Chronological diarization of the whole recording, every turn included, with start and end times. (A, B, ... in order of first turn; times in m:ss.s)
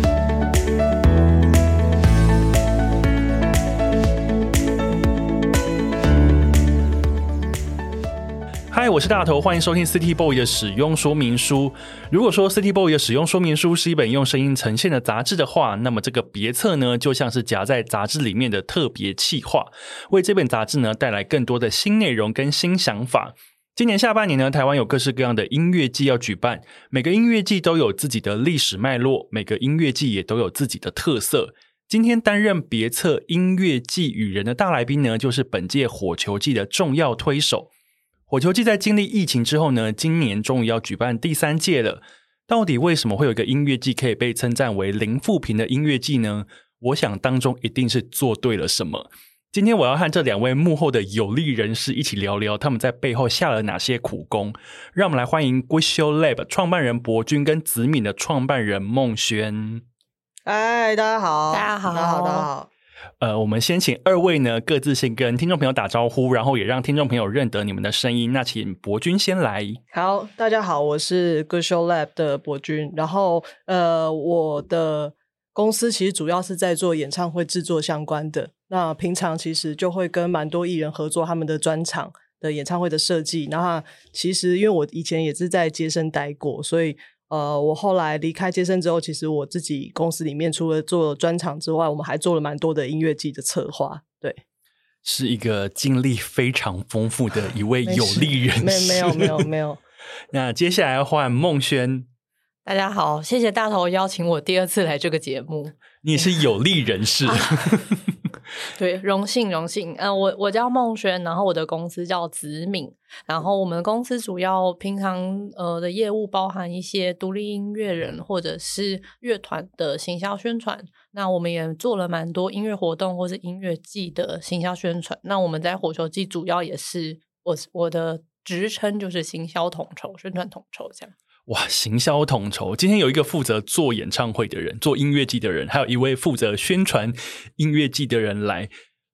0:08.7-0:37.7 A
0:38.3-0:59.8 A
1:00.5-1:02.7 B
1:01.5-1:02.5 C
1:03.2-1:09.8 A
1:09.9-1:34.4 B
1:35.0-1:39.4 A
1:37.9-1:39.8 B
1:40.3-1:42.1 A
1:42.6-1:45.8 C
1:46.0-1:48.1 A
1:47.3-1:47.6 C
1:48.8-2:11.1 C
2:11.5-2:18.7 A